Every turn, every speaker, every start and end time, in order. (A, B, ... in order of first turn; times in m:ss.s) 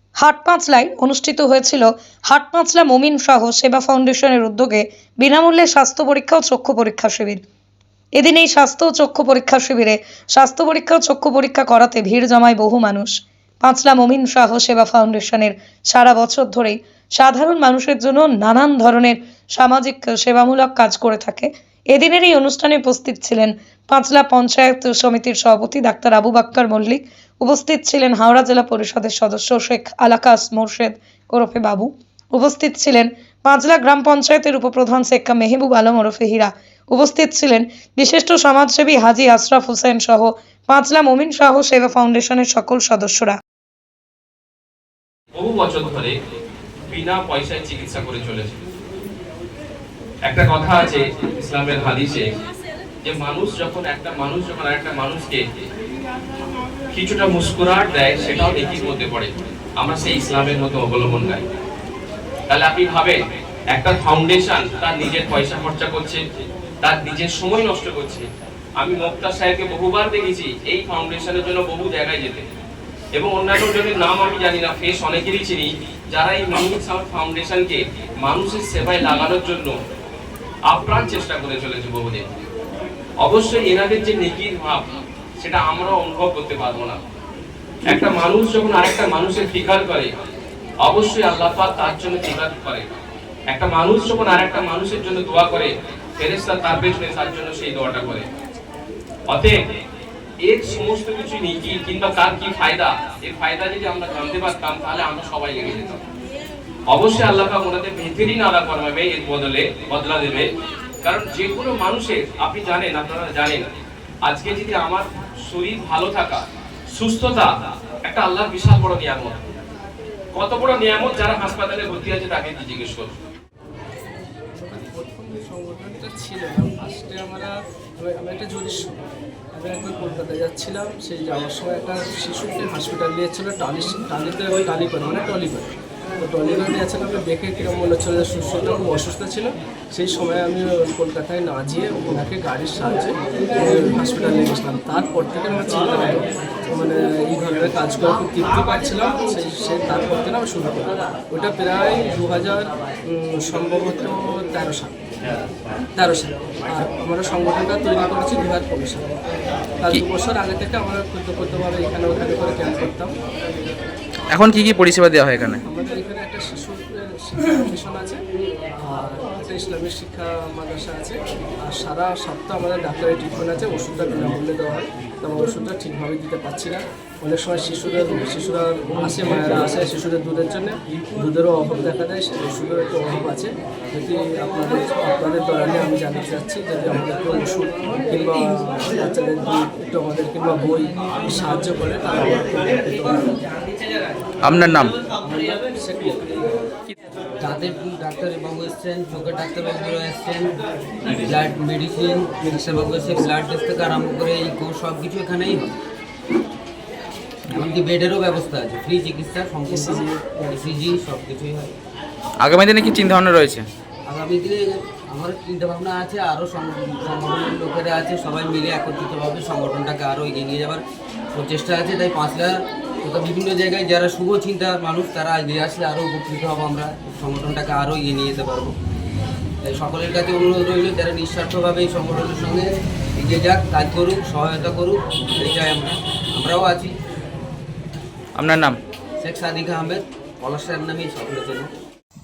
0:00.2-0:07.4 A
0:08.2-0:43.4 A
0:45.4-0:46.1 B
0:46.9-0:48.6 B
0:50.3-0:52.3 B
0:53.0-0:55.4 B
0:56.9-1:01.4 B
1:02.5-1:03.2 B
1:03.7-1:06.2 B
1:06.8-1:08.2 B
1:08.8-1:12.4 B
1:13.2-1:19.7 B
1:20.7-1:22.3 B
1:23.2-1:24.9 B
1:25.4-1:27.0 B
1:27.9-1:30.1 B
1:30.8-1:32.9 B
1:33.5-1:38.2 B
1:39.3-1:39.6 B
1:40.4-1:46.0 B
1:46.9-1:50.5 B
1:51.0-1:53.6 B
1:54.2-1:56.4 B
1:57.0-1:57.5 B
1:58.1-1:59.4 B
2:00.4-2:03.1 B
2:04.5-2:09.0 C
2:09.5-2:35.0 C
2:36.0-2:39.1 C
2:39.8-2:43.1 C
2:44.3-2:45.6 D
2:45.6-2:48.2 C
2:48.8-3:13.3 C
3:14.4-3:14.9 D
3:15.2-3:16.5 C
3:17.4-3:20.5 E
3:21.1-3:25.7 E
3:27.5-3:31.7 E
3:30.0-3:30.4 C
3:32.4-3:33.7 D
3:34.0-3:48.7 E
3:49.6-3:56.9 E
3:58.4-3:58.8 D
3:59.2-4:01.7 E